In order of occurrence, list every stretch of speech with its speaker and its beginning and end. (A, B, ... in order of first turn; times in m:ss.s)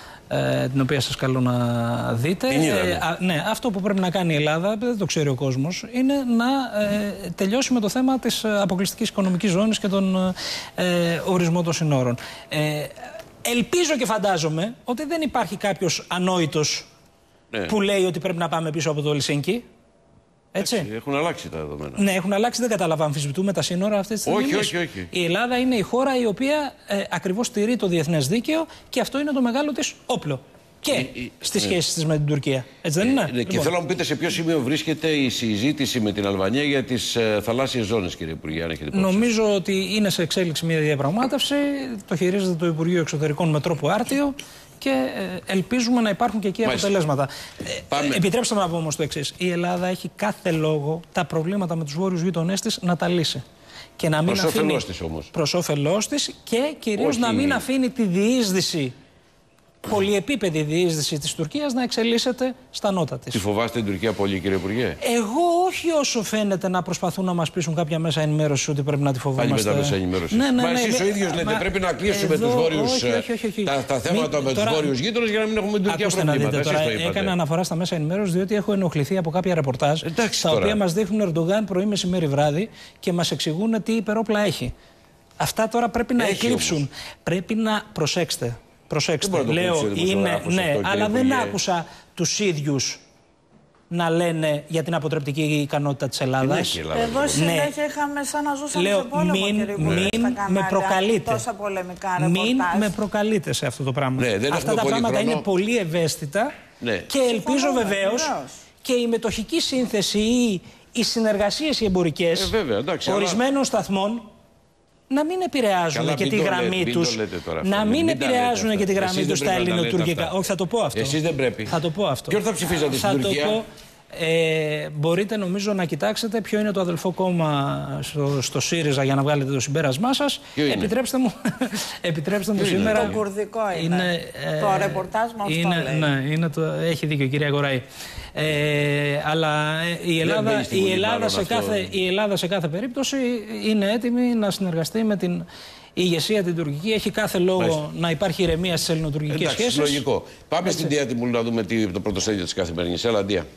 0:00.3-0:16.9 A
0:02.5-0:03.0 B
0:17.5-0:17.8 B
0:17.7-0:19.7 A
0:20.5-0:20.9 A
0:20.6-0:22.0 B
0:22.0-0:33.7 A
0:24.3-0:25.1 B
0:30.9-0:31.8 B
0:33.0-0:39.3 B
0:38.9-0:53.4 A
0:46.6-0:46.9 B
0:47.9-0:48.2 B
0:54.0-0:59.0 A
0:54.3-0:55.3 B
0:57.0-0:57.6 B
0:59.8-1:03.4 A
1:03.3-1:05.0 B
1:05.0-1:14.9 A
1:09.4-1:17.4 B
1:15.8-1:24.7 A
1:20.0-1:20.8 B
1:25.4-1:33.0 A
1:26.2-1:26.8 B
1:29.2-1:31.6 B
1:33.9-1:36.8 A
1:36.4-1:37.5 B
1:36.9-1:42.9 C
1:37.3-1:37.8 A
1:38.7-1:41.4 A
1:39.8-1:40.1 B
1:42.2-1:46.5 A
1:44.2-1:45.4 B
1:46.8-1:47.1 B
1:47.1-1:48.3 A
1:47.2-1:48.6 C
1:48.8-1:54.3 A
1:52.4-1:53.4 B
1:55.1-2:13.2 A
1:55.9-2:00.4 B
2:00.9-2:01.8 B
2:02.3-2:03.6 B
2:10.6-2:10.9 B
2:12.6-2:13.2 B
2:12.8-2:16.1 C
2:13.7-2:30.0 A
2:20.2-2:21.9 B
2:29.3-2:33.5 B
2:30.6-2:30.9 A